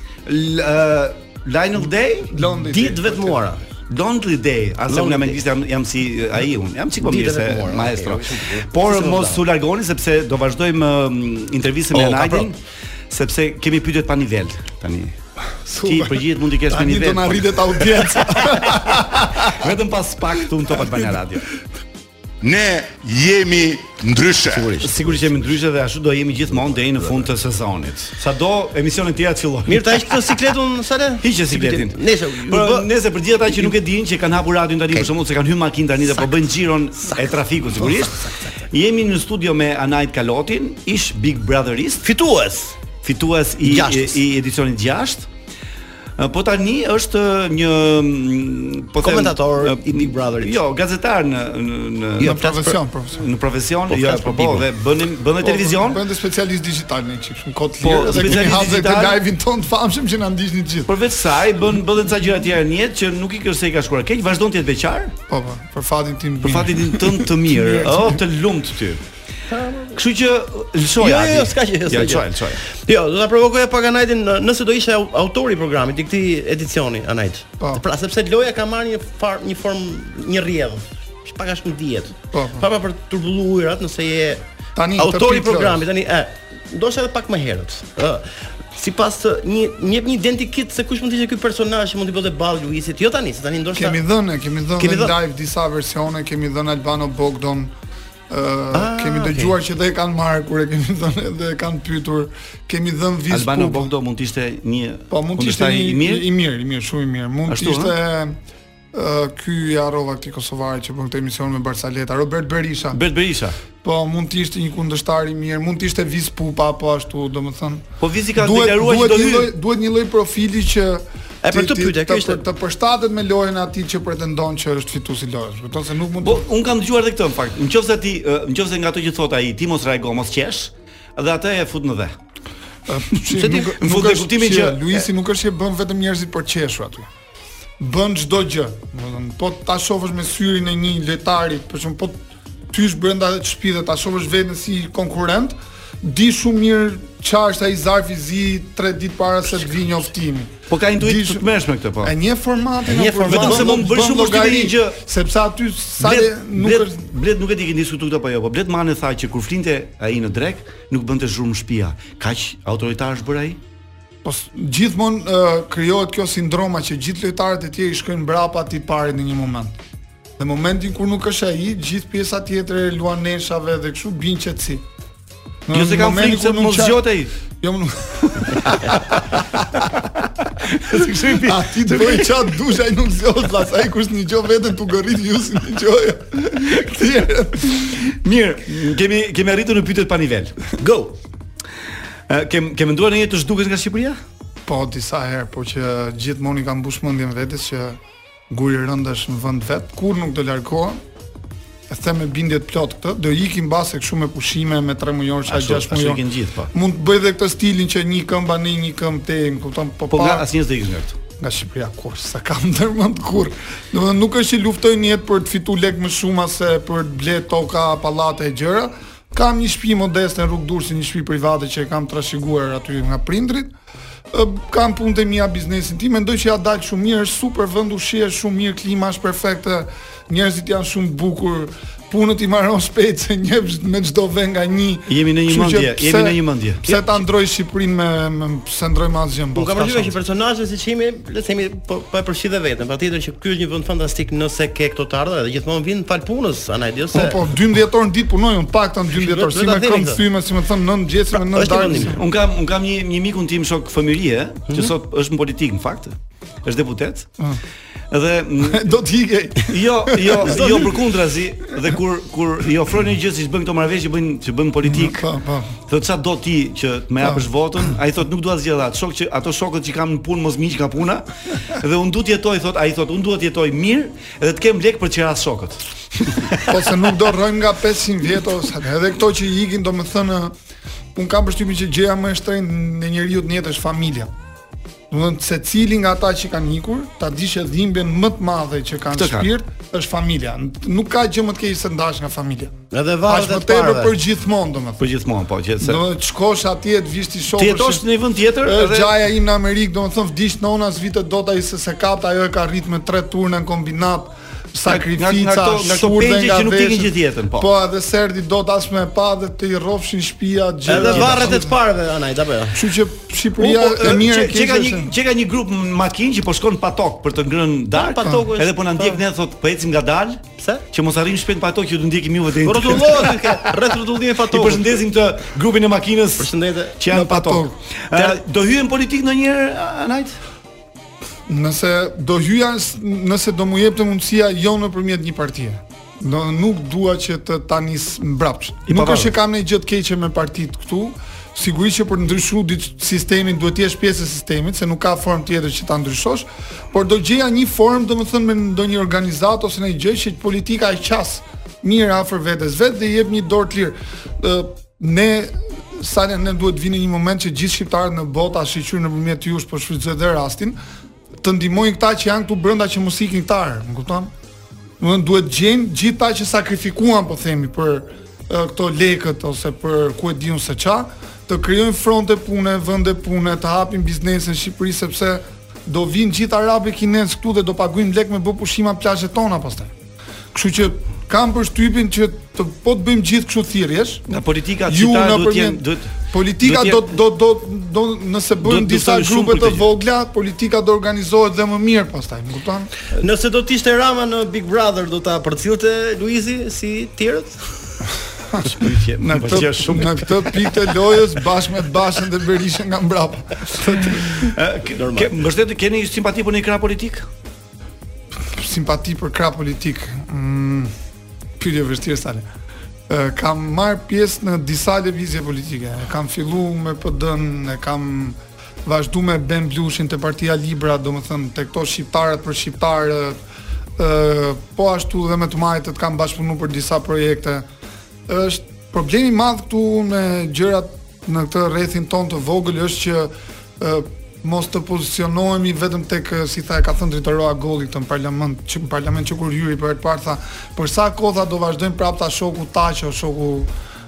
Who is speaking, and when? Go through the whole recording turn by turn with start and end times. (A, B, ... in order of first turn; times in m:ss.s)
0:00.3-0:02.4 A
0:02.3-0:03.4 B
0:02.7-0:03.6 C
0:03.9-0:12.6 A
0:04.9-0:05.4 C
0:07.0-0:09.4 C
0:11.9-0:12.5 C
0:13.1-0:15.2 A
0:15.7-0:19.6 B
0:15.8-0:21.5 A
0:20.8-0:21.1 B
0:22.4-0:24.9 D
0:24.5-0:25.2 C
0:24.8-0:30.5 A
0:29.7-0:32.9 C
0:31.2-0:42.1 A
0:33.5-0:33.8 C
0:42.0-0:42.8 C
0:43.0-0:45.3 A
0:43.6-0:44.2 C
0:46.2-0:52.3 A
0:49.0-0:50.6 C
0:52.2-0:52.8 C
0:52.2-0:53.2 B
0:53.1-0:56.0 A
0:53.9-0:54.7 C
0:55.4-1:00.9 B
0:57.8-0:59.2 A
1:00.9-1:05.2 A
1:05.3-1:08.2 B
1:06.4-1:09.0 A
1:09.5-1:10.0 C
1:09.9-1:12.6 A
1:11.0-1:24.4 C
1:22.3-1:22.7 B
1:24.8-1:25.8 B
1:25.0-1:34.0 C
1:33.8-1:37.7 B
1:34.8-1:35.2 C
1:38.3-1:43.9 B
1:38.7-1:39.5 C
1:43.3-1:46.3 A
1:45.1-1:48.4 B
1:47.5-1:48.0 A
1:48.9-1:53.0 B
1:52.9-1:53.6 A
1:53.8-2:06.4 B
1:58.0-1:59.5 A
2:01.4-2:02.4 C
2:06.2-2:12.2 A
2:12.9-2:17.1 B
2:13.3-2:15.1 A
2:17.8-2:22.2 B
2:22.7-2:31.5 B
2:30.7-2:32.2 A
2:32.0-2:37.1 B
2:32.9-2:33.9 C
2:33.2-2:35.0 A
2:36.0-2:43.6 A
2:44.2-2:49.8 B
2:50.4-2:54.8 B
2:55.7-2:57.0 B
2:55.7-2:57.3 A
2:57.6-2:59.4 B
3:00.6-3:02.5 A
3:01.3-3:07.9 B
3:07.7-3:11.2 A
3:12.3-3:14.2 A
3:14.7-3:18.0 B
3:18.5-3:21.0 B
3:21.9-3:30.5 B
3:25.5-3:26.7 A
3:30.1-3:31.2 A
3:31.4-3:43.7 B
3:44.3-4:00.1 B
3:55.1-3:56.9 A
3:59.6-4:07.4 C
4:07.1-4:12.2 B
4:09.1-4:10.2 C
4:11.4-4:12.2 C
4:12.1-4:17.3 A
4:18.1-4:18.9 A
4:18.6-4:20.4 B
4:19.6-4:25.2 A
4:20.4-4:21.0 C
4:24.8-4:25.7 B
4:25.9-4:36.8 A
4:36.7-4:40.5 B
4:41.1-4:44.3 B
4:45.1-4:52.7 B
4:49.1-4:49.5 A
4:52.9-4:54.2 C
4:53.3-4:55.0 B
4:55.0-4:56.0 A
4:55.8-4:58.0 B
4:57.6-4:59.1 A
4:58.6-5:11.8 B
5:04.9-5:07.7 A
5:10.9-5:12.8 C
5:10.9-5:11.6 A
5:12.7-5:15.1 B
5:13.6-5:23.6 A
5:17.9-5:19.2 C
5:20.6-5:20.8 C
5:22.6-5:25.0 C
5:24.5-5:30.4 A
5:26.4-5:27.0 C
5:27.1-5:27.8 B
5:31.5-6:00.8 B
5:38.9-5:39.4 A
6:01.4-6:04.3 B
6:05.0-6:19.9 B
6:20.5-6:24.3 B
6:24.3-6:27.1 A
6:24.9-6:32.9 B
6:28.6-6:29.9 A
6:33.1-6:38.0 C
6:38.5-6:44.6 B
6:38.7-6:41.2 A
6:44.4-6:47.3 A
6:45.0-6:45.4 C
6:48.4-6:50.9 B
6:51.6-6:52.4 B
6:53.1-7:03.4 B
7:04.0-7:07.7 B
7:08.3-7:23.7 B